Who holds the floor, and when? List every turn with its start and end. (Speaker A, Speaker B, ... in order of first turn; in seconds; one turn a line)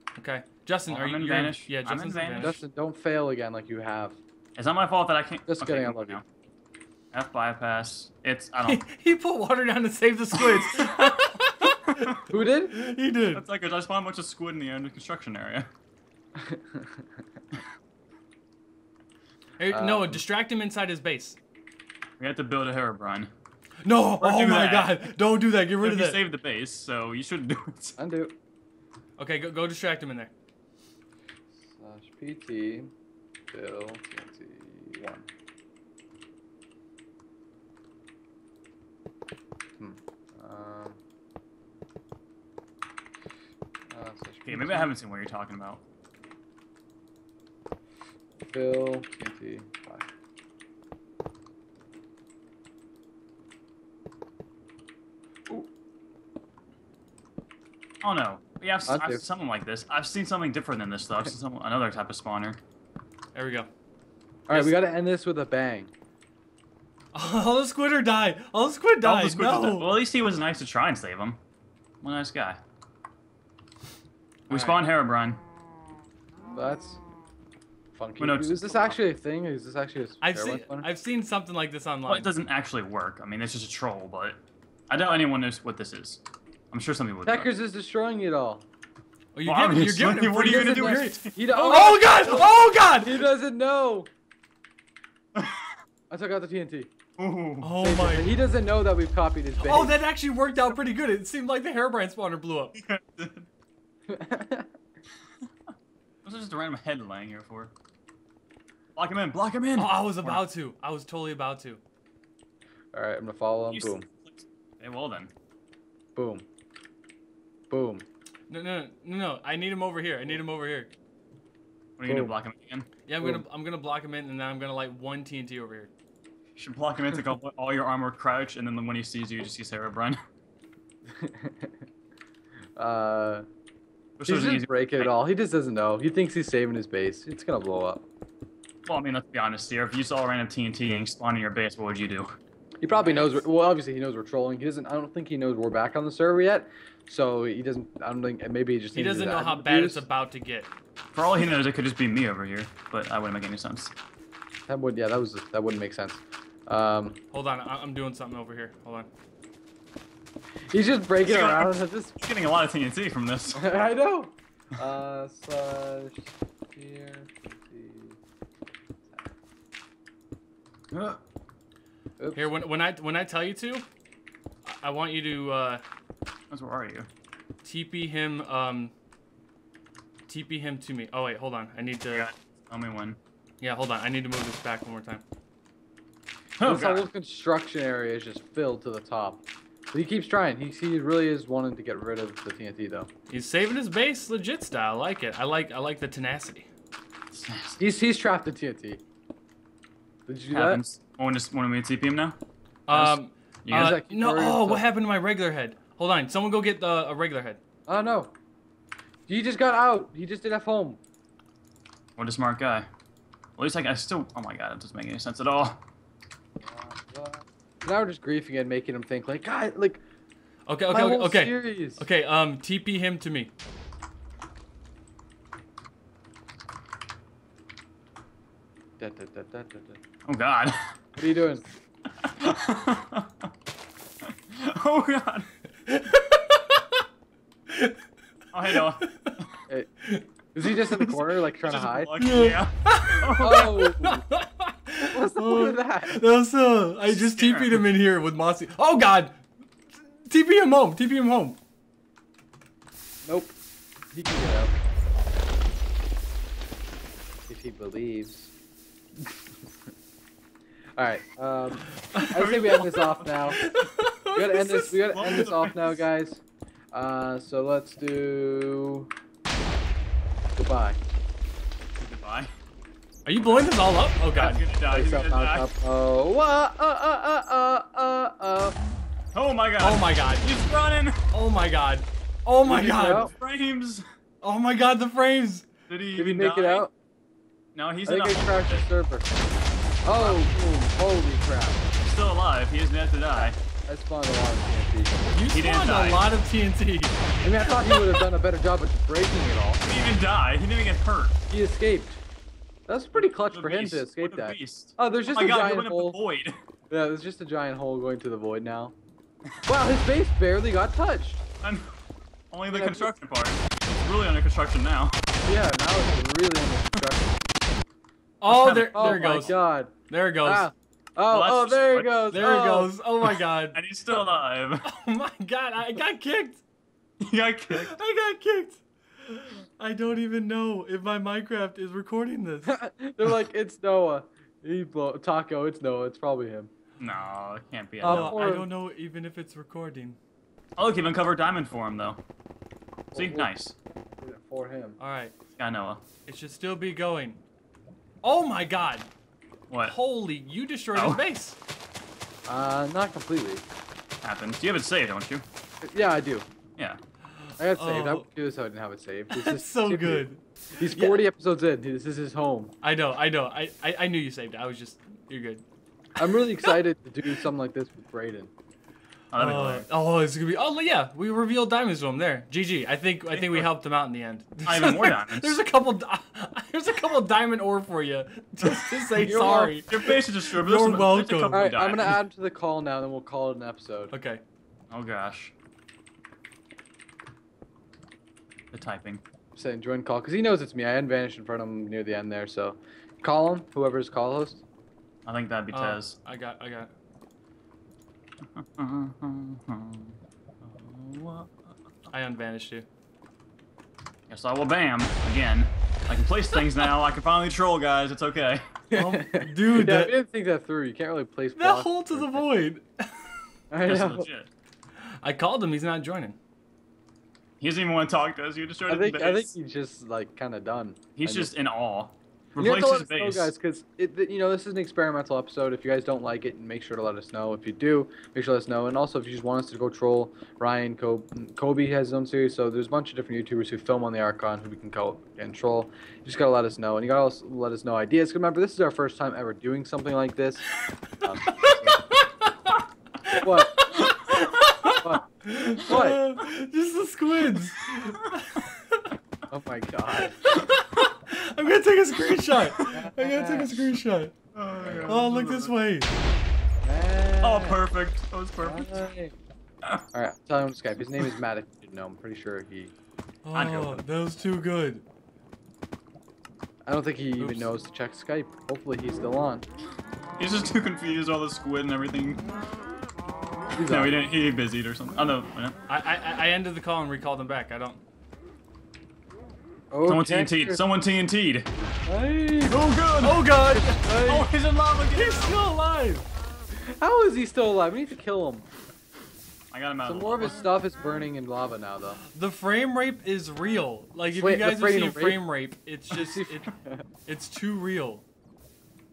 Speaker A: 0.2-2.6
Speaker B: 0.9-2.5
Speaker C: 2.4-4.2
Speaker B: 4.5-6.2
Speaker C: 5.5-6.2
Speaker B: 7.1-8.8
Speaker A: 8.6-12.1
Speaker C: 12.3-12.7
Speaker A: 12.7-13.4
Speaker B: 13.3-15.7
Speaker C: 16.4-16.9
Speaker A: 19.6-21.4
Speaker C: 19.7-20.2
Speaker B: 22.2-23.3
Speaker A: 23.8-26.2
Speaker B: 24.2-25.1
Speaker B: 25.8-27.9
Speaker C: 28.0-28.3
Speaker A: 29.2-30.3
Speaker C: 31.6-32.9
Speaker C: 33.5-35.2
Speaker C: 39.8-41.0
Speaker C: 43.9-44.9
Speaker B: 44.5-45.8
Speaker C: 48.4-50.1
Speaker B: 58.0-62.6
Speaker C: 58.9-59.2
Speaker A: 63.3-63.7
Speaker C: 64.5-65.9
Speaker A: 64.5-64.8
Speaker A: 67.1-69.9
Speaker B: 69.0-71.4
Speaker B: 72.0-72.6
Speaker B: 74.5-75.4
Speaker A: 74.5-74.8
Speaker C: 76.5-77.0
Speaker C: 77.9-80.9
Speaker B: 78.2-78.9
Speaker A: 80.2-82.3
Speaker B: 82.1-84.4
Speaker B: 84.9-87.5
Speaker C: 87.2-88.6
Speaker A: 89.3-93.2
Speaker B: 89.4-91.5
Speaker C: 90.3-94.1
Speaker B: 95.3-95.7
Speaker C: 96.1-96.9
Speaker B: 97.2-97.7
Speaker A: 97.6-98.3
Speaker C: 97.8-100.0
Speaker A: 99.6-102.8
Speaker B: 102.8-103.5
Speaker C: 104.1-104.7
Speaker B: 106.2-107.7
Speaker B: 109.0-110.4
Speaker A: 109.8-111.8
Speaker C: 112.9-114.0
Speaker B: 113.7-115.3
Speaker C: 116.2-116.4
Speaker C: 117.7-118.0
Speaker A: 118.5-120.9
Speaker B: 122.0-122.9
Speaker C: 122.0-122.3
Speaker A: 123.0-125.9
Speaker B: 126.5-130.2
Speaker C: 131.2-131.7
Speaker C: 132.8-133.4
Speaker B: 134.2-135.1
Speaker C: 134.2-138.0
Speaker B: 138.9-142.3
Speaker C: 142.8-150.1
Speaker A: 148.9-150.7
Speaker B: 151.1-153.9
Speaker C: 154.7-157.2
Speaker A: 157.3-159.1
Speaker C: 160.7-162.2
Speaker B: 161.2-163.6
Speaker C: 163.5-168.2
Speaker C: 169.1-169.3
Speaker B: 170.9-171.2
Speaker C: 172.2-172.5
Speaker A: 172.3-173.9
Speaker A: 174.6-175.8
Speaker B: 176.5-177.1
Speaker A: 177.6-178.9
Speaker A: 180.3-182.3
Speaker B: 182.1-183.2
Speaker A: 183.6-185.2
Speaker B: 186.6-187.1
Speaker C: 186.6-193.1
Speaker A: 193.3-196.7
Speaker B: 197.3-197.8
Speaker C: 197.8-199.0
Speaker C: 200.2-200.8
Speaker B: 200.5-202.4
Speaker A: 202.9-207.6
Speaker B: 202.9-203.9
Speaker C: 203.7-204.9
Speaker C: 207.9-208.3
Speaker C: 209.3-211.0
Speaker B: 212.2-212.9
Speaker B: 213.6-215.8
Speaker C: 216.6-220.0
Speaker A: 220.7-223.5
Speaker C: 220.9-222.0
Speaker C: 229.0-230.0
Speaker B: 230.3-230.9
Speaker C: 231.2-231.6
Speaker B: 232.4-233.3
Speaker B: 234.5-235.5
Speaker A: 235.9-236.8
Speaker A: 237.7-237.9
Speaker B: 238.5-239.5
Speaker A: 238.8-239.1
Speaker C: 240.5-242.2
Speaker B: 241.6-243.8
Speaker A: 242.2-249.4
Speaker C: 243.4-244.2
Speaker C: 245.1-246.2
Speaker B: 247.1-247.8
Speaker A: 250.2-251.6
Speaker C: 253.2-253.6
Speaker C: 254.1-254.7
Speaker C: 257.5-258.5
Speaker C: 261.0-263.6
Speaker A: 262.0-265.5
Speaker B: 262.3-263.8
Speaker C: 264.3-269.1
Speaker B: 265.1-265.9
Speaker C: 270.6-271.0
Speaker B: 272.0-272.5
Speaker A: 273.2-274.6
Speaker B: 273.4-273.7
Speaker B: 274.3-275.7
Speaker C: 274.9-278.8
Speaker B: 279.3-281.2
Speaker A: 279.8-280.5
Speaker A: 281.3-283.3
Speaker C: 282.6-283.3
Speaker B: 282.8-284.0
Speaker A: 284.4-285.7
Speaker B: 285.9-286.9
Speaker C: 286.1-286.9
Speaker B: 287.7-288.9
Speaker C: 288.0-289.4
Speaker C: 290.1-291.9
Speaker B: 290.1-290.5
Speaker B: 292.0-293.6
Speaker C: 293.3-295.4
Speaker A: 295.3-298.2
Speaker B: 295.5-296.2
Speaker C: 297.4-299.8
Speaker B: 299.8-301.3
Speaker C: 301.5-302.2
Speaker C: 302.9-306.2
Speaker B: 303.1-306.6
Speaker C: 306.9-308.9
Speaker C: 309.6-311.4
Speaker B: 311.6-311.9
Speaker B: 312.5-315.2
Speaker C: 312.7-313.1
Speaker C: 315.4-317.4
Speaker A: 318.4-320.7
Speaker C: 318.5-319.9
Speaker B: 318.9-319.5
Speaker C: 320.4-322.9
Speaker B: 321.3-322.4
Speaker A: 322.3-323.8
Speaker B: 323.7-324.8
Speaker A: 324.8-326.6
Speaker B: 327.2-327.9
Speaker A: 327.7-332.8
Speaker C: 332.6-336.7
Speaker B: 337.0-338.4
Speaker C: 338.0-338.7
Speaker A: 338.0-340.2
Speaker B: 340.8-342.2
Speaker C: 343.1-343.5
Speaker B: 343.1-343.7
Speaker C: 344.1-345.0
Speaker A: 345.0-345.4
Speaker B: 345.6-346.0
Speaker A: 346.2-347.4
Speaker A: 348.2-349.1
Speaker B: 349.7-349.9
Speaker A: 349.8-351.6
Speaker B: 350.9-351.2
Speaker C: 352.5-353.6
Speaker B: 354.2-355.4
Speaker C: 355.8-356.5
Speaker A: 357.4-358.3
Speaker C: 357.6-362.7
Speaker A: 359.3-361.2
Speaker A: 362.8-365.6
Speaker C: 366.2-368.5
Speaker B: 369.3-369.9
Speaker A: 369.4-381.7
Speaker B: 373.3-373.7
Speaker B: 374.6-375.6
Speaker B: 378.6-382.2
Speaker C: 379.2-379.7
Speaker C: 381.5-384.1
Speaker A: 384.1-384.4
Speaker B: 384.9-385.5
Speaker B: 388.7-389.2
Speaker C: 389.6-394.6
Speaker B: 395.2-396.2
Speaker A: 395.7-396.9
Speaker B: 398.6-401.5
Speaker A: 402.1-402.9
Speaker B: 404.3-408.6
Speaker C: 408.9-412.5
Speaker A: 408.9-410.1
Speaker A: 411.6-413.4
Speaker C: 413.7-414.3
Speaker B: 413.8-414.5
Speaker A: 415.2-416.4
Speaker B: 417.6-419.5
Speaker C: 418.9-421.5
Speaker B: 421.1-423.5
Speaker C: 422.6-440.6
Speaker C: 441.2-442.0
Speaker A: 441.4-442.5
Speaker A: 443.2-449.0
Speaker C: 443.4-443.9
Speaker C: 445.8-446.2
Speaker C: 449.5-450.4
Speaker A: 450.2-454.3
Speaker C: 452.9-453.9
Speaker B: 454.5-455.8
Speaker C: 454.8-455.2
Speaker A: 455.1-456.1
Speaker C: 456.8-457.8
Speaker B: 457.4-459.0
Speaker C: 458.6-459.4
Speaker C: 460.1-462.9
Speaker A: 463.4-465.0
Speaker B: 463.5-464.0
Speaker C: 466.9-469.6
Speaker A: 467.4-467.7
Speaker B: 470.4-472.4
Speaker C: 473.7-474.2
Speaker B: 473.9-475.8
Speaker A: 475.9-478.0
Speaker C: 479.9-480.8
Speaker B: 480.0-481.7
Speaker C: 482.1-482.9
Speaker B: 482.7-483.5
Speaker A: 483.2-484.1
Speaker C: 483.7-484.5
Speaker B: 484.1-485.6
Speaker A: 485.1-486.3
Speaker C: 486.9-488.7
Speaker B: 489.7-490.7
Speaker C: 490.0-492.2
Speaker A: 492.3-496.7
Speaker C: 494.4-495.4
Speaker C: 496.1-497.0
Speaker A: 497.2-498.2